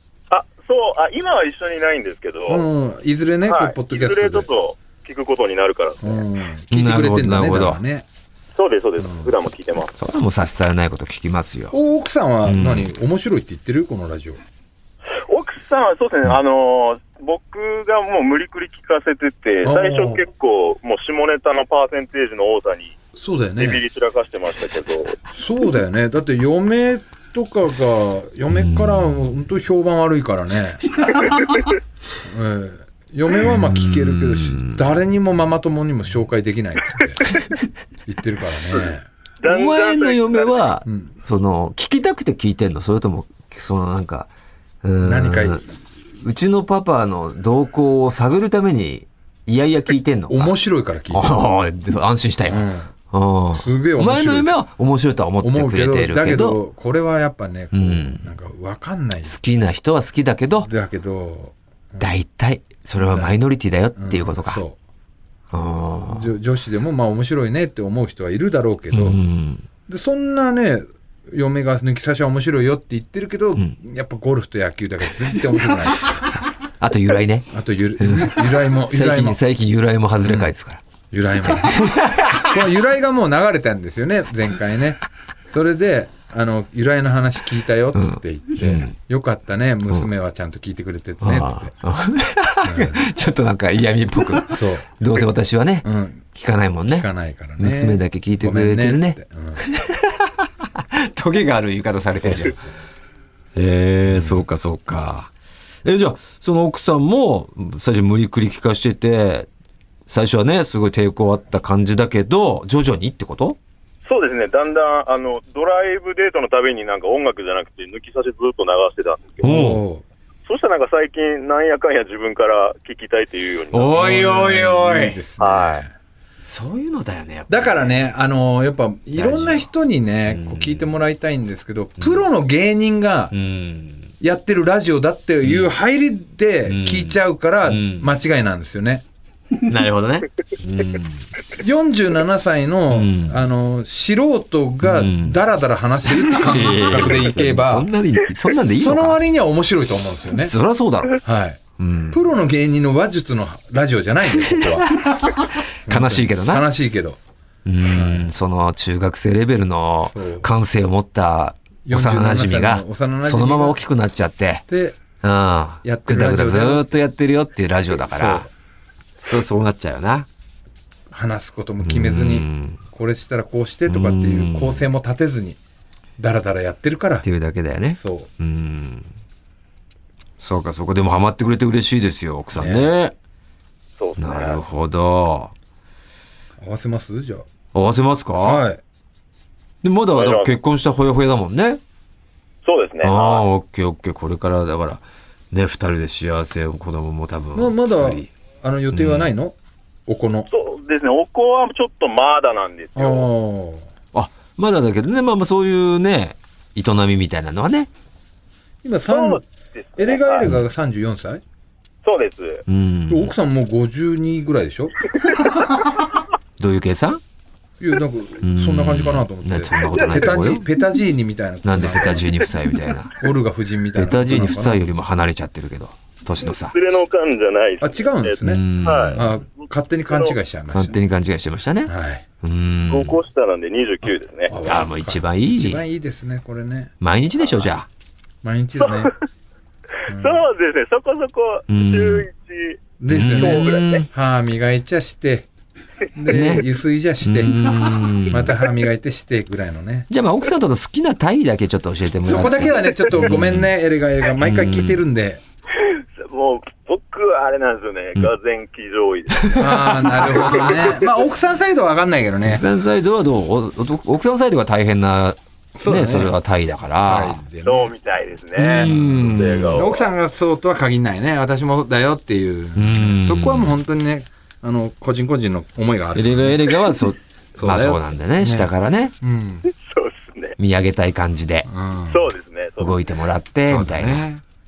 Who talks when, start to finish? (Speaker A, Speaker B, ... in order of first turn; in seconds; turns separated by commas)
Speaker A: 0.3-2.6, Speaker B: 2.5-4.5, Speaker A: 3.5-6.3, Speaker B: 6.0-8.1, Speaker C: 6.7-7.8, Speaker A: 8.6-9.9, Speaker B: 9.0-9.3, Speaker C: 10.0-11.8, Speaker B: 11.7-14.4, Speaker C: 12.4-12.9, Speaker A: 15.2-23.0, Speaker B: 19.6-20.2, Speaker B: 23.2-23.8, Speaker A: 23.6-25.2, Speaker B: 25.3-31.0, Speaker C: 28.5-29.2, Speaker A: 31.4-31.7, Speaker B: 32.2-37.3, Speaker C: 33.4-34.8, Speaker B: 38.1-39.0, Speaker A: 39.4-40.7, Speaker C: 39.4-44.3, Speaker B: 40.9-41.1, Speaker C: 44.8-45.6, Speaker B: 45.0-45.6, Speaker C: 46.2-50.5, Speaker B: 50.3-51.5, Speaker C: 51.1-56.6, Speaker B: 52.5-52.9, Speaker B: 53.5-54.5, Speaker B: 55.4-59.4, Speaker C: 57.7-58.2, Speaker C: 59.2-60.7, Speaker B: 60.6-62.1, Speaker C: 62.0-64.6, Speaker B: 63.0-63.3, Speaker B: 64.0-64.8, Speaker C: 65.5-66.3, Speaker B: 66.1-69.2, Speaker C: 68.9-69.6, Speaker B: 69.9-76.2, Speaker C: 76.8-80.8, Speaker B: 77.5-79.4, Speaker B: 80.2-80.5, Speaker B: 81.1-91.7, Speaker C: 81.6-82.5, Speaker C: 87.9-89.0, Speaker C: 91.2-97.1, Speaker B: 92.6-93.0, Speaker B: 94.4-94.9, Speaker B: 95.8-96.2, Speaker B: 96.9-99.6, Speaker C: 97.6-102.6, Speaker B: 102.2-102.7, Speaker C: 103.5-105.3, Speaker B: 104.0-104.4, Speaker C: 105.8-109.5, Speaker C: 110.1-113.6, Speaker A: 114.0-119.5, Speaker C: 119.4-119.8, Speaker B: 119.4-120.0, Speaker A: 120.5-124.0, Speaker C: 123.7-125.2, Speaker B: 123.9-125.9, Speaker A: 125.4-125.8, Speaker C: 126.4-128.0, Speaker B: 127.5-133.3, Speaker C: 129.2-129.7, Speaker C: 130.3-130.9, Speaker C: 132.0-132.2, Speaker C: 133.3-134.1, Speaker B: 134.2-139.0, Speaker C: 135.4-135.7, Speaker C: 136.7-138.1, Speaker C: 139.6-141.2, Speaker B: 141.6-147.9, Speaker C: 142.9-143.4, Speaker C: 144.8-145.4, Speaker C: 146.2-149.2, Speaker B: 148.7-150.5, Speaker C: 150.4-151.2, Speaker B: 151.2-155.0, Speaker C: 151.8-152.2, Speaker C: 154.4-156.7, Speaker B: 155.9-157.2, Speaker C: 157.6-164.7, Speaker B: 157.9-158.3, Speaker B: 160.0-160.5, Speaker B: 161.8-163.8, Speaker B: 164.7-165.0, Speaker C: 165.2-168.5, Speaker B: 165.8-166.9, Speaker B: 168.0-168.5, Speaker C: 169.2-170.3, Speaker B: 171.1-175.6, Speaker C: 171.8-172.8, Speaker C: 173.9-174.8, Speaker B: 176.2-177.2, Speaker C: 177.2-179.1, Speaker B: 177.9-178.3, Speaker C: 180.4-183.1, Speaker B: 182.5-182.9, Speaker A: 184.0-184.6, Speaker C: 184.2-185.5, Speaker B: 186.6-187.5, Speaker C: 187.7-188.6, Speaker B: 188.4-188.8, Speaker C: 189.8-191.8, Speaker A: 190.1-190.5, Speaker A: 192.6-193.4, Speaker C: 193.0-198.3, Speaker B: 197.5-199.6, Speaker C: 198.9-199.3, Speaker B: 200.1-200.5, Speaker A: 200.5-203.3, Speaker B: 202.9-203.9, Speaker C: 204.1-207.9, Speaker B: 208.8-209.4, Speaker A: 209.1-210.5, Speaker B: 210.0-211.4, Speaker A: 212.0-212.6, Speaker C: 212.7-213.3, Speaker B: 213.1-215.1, Speaker C: 216.6-217.2, Speaker B: 217.8-222.3, Speaker C: 218.4-220.7, Speaker C: 221.6-223.2, Speaker B: 223.2-224.8, Speaker C: 223.9-226.8, Speaker A: 226.4-229.3, Speaker B: 227.8-231.0, Speaker C: 228.4-229.3, Speaker A: 230.1-230.3, Speaker C: 230.7-233.2, Speaker B: 231.8-232.2, Speaker A: 232.9-234.6, Speaker B: 234.0-236.9, Speaker C: 234.6-235.8, Speaker C: 237.0-237.9, Speaker B: 238.4-239.1, Speaker A: 238.8-239.1, Speaker A: 240.1-242.8, Speaker B: 240.1-240.4, Speaker C: 241.7-242.3, Speaker B: 243.0-245.5, Speaker C: 243.1-244.1, Speaker A: 243.3-244.0, Speaker B: 246.1-247.6, Speaker C: 246.3-246.7, Speaker C: 247.2-248.6, Speaker B: 248.3-250.1, Speaker C: 250.1-253.7, Speaker B: 252.2-255.4, Speaker C: 254.4-255.0, Speaker A: 255.8-260.9, Speaker C: 259.4-261.0, Speaker B: 259.5-262.6, Speaker C: 262.4-267.4, Speaker B: 265.8-266.4, Speaker B: 267.0-267.9, Speaker A: 267.6-270.1, Speaker C: 268.6-269.9, Speaker B: 268.6-276.7, Speaker C: 272.8-273.7, Speaker C: 276.1-279.1, Speaker B: 277.6-278.7, Speaker B: 279.2-279.7, Speaker A: 279.7-280.6, Speaker C: 280.6-281.7, Speaker B: 281.6-282.3, Speaker A: 282.1-283.0, Speaker C: 282.8-284.2, Speaker B: 283.6-284.4